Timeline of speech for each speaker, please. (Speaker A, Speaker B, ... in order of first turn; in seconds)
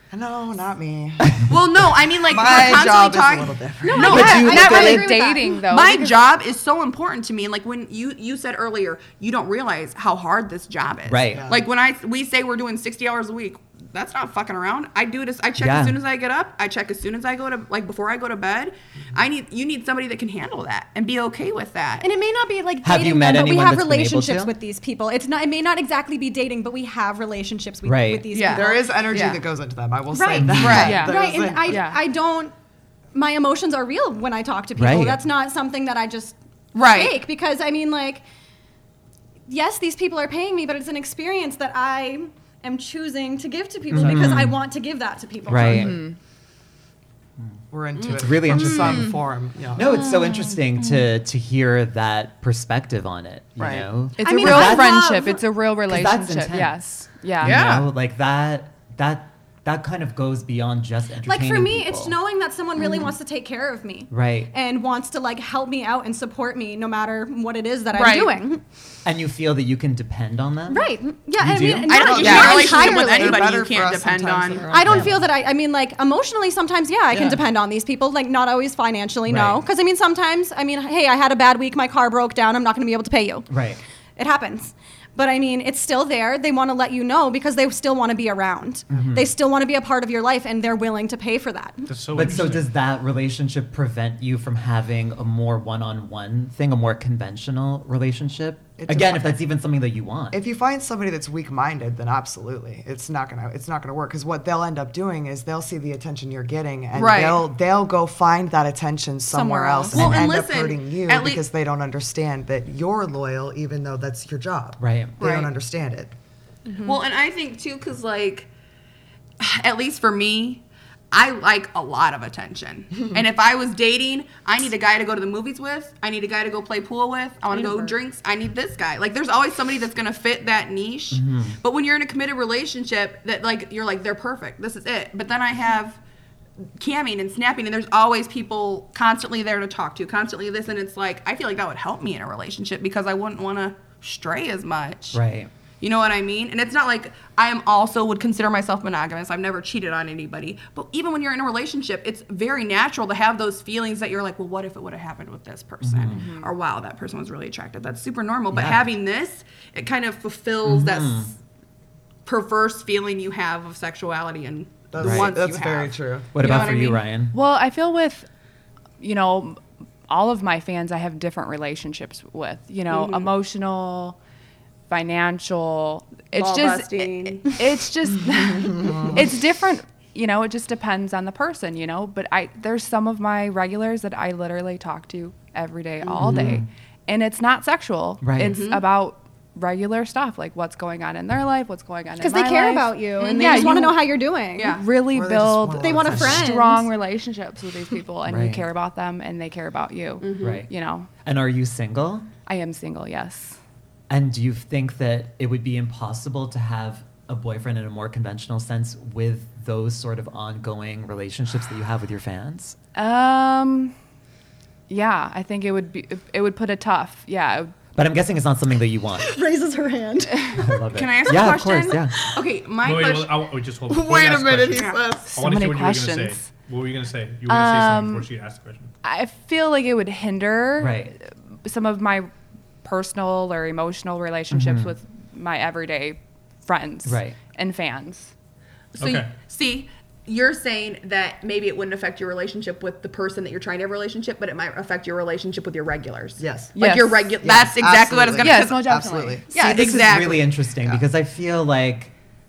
Speaker A: 0.1-1.5, 2.3-4.1, 11.3-11.7, 28.5-31.9, 47.7-50.0, 53.6-53.8, 72.0-75.2, 98.8-99.4, 100.3-116.1, 164.9-166.3, 178.9-179.2, 195.1-196.5, 223.9-225.3, 246.4-246.8, 247.4-250.3
Speaker B: 1.5-5.0, 5.6-22.1, 28.3-29.4, 30.5-31.0, 36.7-37.2, 48.0-48.5, 57.4-57.9, 67.9-68.3, 71.9-74.7, 106.9-107.5, 109.9-111.4, 115.2-115.5, 116.8-118.5, 119.4-136.0, 136.8-145.2, 145.8-161.3, 162.3-167.0, 172.9-173.3, 176.3-177.6, 186.0-186.6, 188.4-188.8, 194.6-194.8, 200.2-200.7, 220.9-223.3, 224.7-225.0, 239.0-248.9, 249.5-250.5
Speaker C: 3.9-5.6, 22.0-29.0, 30.1-32.5, 33.1-38.2, 39.5-46.0, 48.5-49.1, 54.2-55.5, 61.2-68.6, 70.7-73.6, 74.7-83.5, 84.2-91.9, 109.3-109.9, 192.2-194.8, 195.8-196.9, 219.3-220.7
Speaker D: 4.0-6.2, 30.8-32.0, 45.6-46.2, 54.2-57.7, 127.5-127.9, 156.1-156.5, 167.3-168.3, 169.0-174.2, 174.9-194.0, 194.6-201.1, 202.5-203.6, 212.9-213.9, 214.9-217.7, 225.3-226.5, 227.5-228.3, 229.0-232.3, 232.8-238.3, 246.8-247.3, 248.4-249.5
Speaker E: 4.0-5.1, 11.1-11.5, 15.6-16.0, 22.8-24.6, 27.9-28.3, 30.4-30.9, 34.8-35.2, 43.9-44.6, 45.5-46.1, 47.4-49.2, 49.7-55.1, 55.9-62.2, 64.1-64.5, 69.0-72.1, 74.8-75.3, 79.3-79.6, 83.5-83.8, 88.9-89.3, 92.1-100.4, 109.9-110.4, 114.8-115.2, 131.1-131.6, 145.1-145.5, 155.8-156.2, 158.5-158.9, 160.6-161.3, 165.0-165.3, 166.3-167.3, 186.2-186.7, 188.2-188.6, 198.2-198.7, 200.4-200.7, 201.2-202.3, 204.1-212.8, 217.9-219.4, 220.5-222.2, 230.8-231.2, 234.5-234.9, 237.1-237.4, 249.5-252.1
Speaker F: 91.9-92.7, 222.8-228.9, 239.0-239.3